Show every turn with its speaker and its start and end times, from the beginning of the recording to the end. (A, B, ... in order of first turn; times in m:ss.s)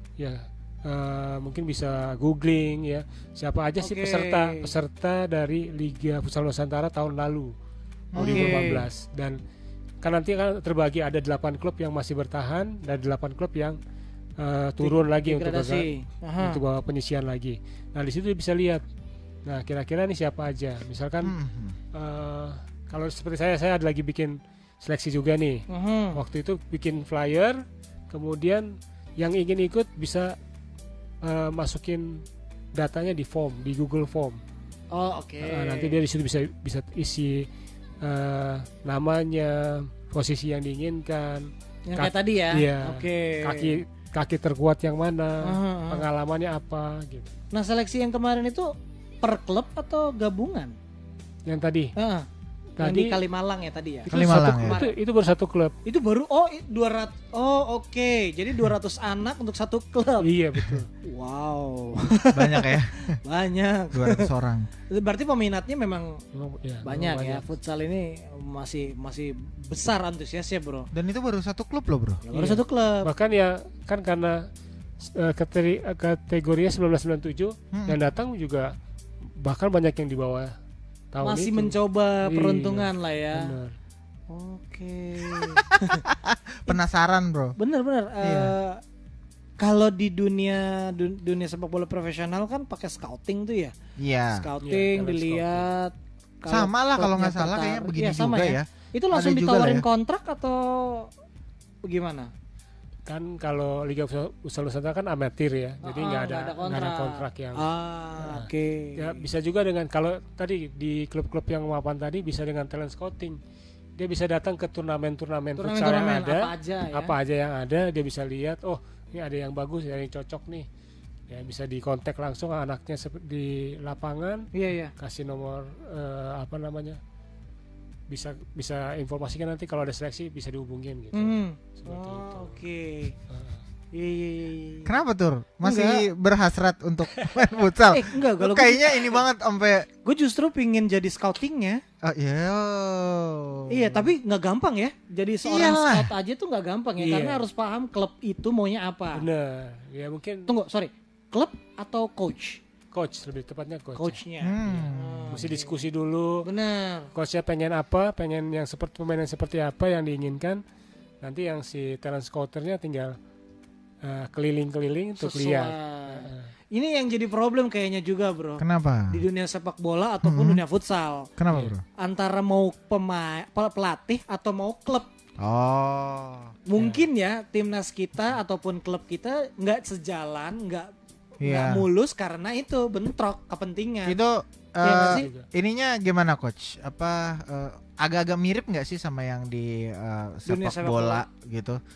0:00.2-0:07.5 A
0:03.8-0:04.7 B
0:08.1-0:08.6 C
0:08.2-0:09.4 A
0:08.2-0:08.8 B
0:10.0-0:13.8 A
0:14.4-0:18.8 A
0:14.8-0:16.6 B
0:19.5-0:21.3 A
0:21.2-0:21.8 C
0:21.9-0:25.6 A
0:25.7-0:26.2 B
0:26.1-0:27.6 A
0:28.1-0:30.4 A
0:31.2-0:32.2 A
0:32.7-0:34.4 A
0:34.9-0:36.0 B
0:35.4-0:37.5 A
0:38.0-0:47.3 A
0:41.9-0:43.8 B
0:45.4-0:46.0 B
0:47.5-0:48.7 B
0:49.2-0:50.7 B
0:51.4-0:51.9 A
0:52.0-0:52.3 B
0:52.8-0:53.2 A
0:52.8-0:54.9 B
0:54.1-0:55.7 A
0:54.1-0:54.8 C
0:55.8-1:00.3 B
1:00.2-1:00.9 A
1:01.0-1:04.3 B
1:02.3-1:03.2 C
1:03.9-1:04.7 C
1:04.9-1:06.2 B
1:06.3-1:07.4 A
1:06.8-1:10.9 B
1:10.9-1:12.2 C
1:12.3-1:13.1 B
1:12.3-1:14.4 A
1:15.0-1:18.7 A
1:17.7-1:18.0 C
1:19.4-1:20.5 A
1:21.1-1:23.7 A
1:21.2-1:23.5 B
1:24.3-1:26.0 B
1:25.6-1:27.6 C
1:27.6-1:28.8 B
1:28.2-1:28.5 C
1:29.6-1:33.7 B
1:34.0-1:34.4 C
1:34.3-1:41.1 B
1:34.6-1:35.7 A
1:36.5-1:39.8 C
1:41.8-1:42.3 B
1:43.1-1:47.6 A
1:45.8-1:49.2 B
1:48.2-1:53.4 A
1:54.0-2:00.7 A
1:55.6-1:57.1 B
2:01.3-2:07.0 A
2:04.5-2:04.9 B
2:08.1-2:12.6 A
2:11.1-2:13.1 B
2:13.3-2:13.6 A
2:13.9-2:14.9 B
2:14.8-2:19.9 C
2:15.6-2:16.0 B
2:17.9-2:19.2 B
2:20.0-2:21.8 B
2:22.0-2:24.0 C
2:23.7-2:29.2 B
2:25.4-2:26.1 C
2:27.0-2:27.4 A
2:29.2-2:30.5 A
2:30.5-2:32.6 B
2:32.9-2:36.4 A
2:34.0-2:35.7 B
2:34.4-2:35.4 C
2:36.4-2:37.1 B
2:37.1-2:40.6 A
2:41.2-2:43.2 A
2:44.0-2:46.5 A
2:45.2-2:51.3 B
2:48.6-2:49.2 C
2:50.2-2:50.6 C
2:51.4-2:51.8 C
2:52.0-2:55.1 B
2:55.4-2:56.6 C
2:56.7-3:04.2 B
2:56.8-2:57.0 A
3:01.4-3:01.9 C
3:04.1-3:11.8 C
3:04.8-3:05.3 B
3:05.0-3:05.4 A
3:10.5-3:11.2 B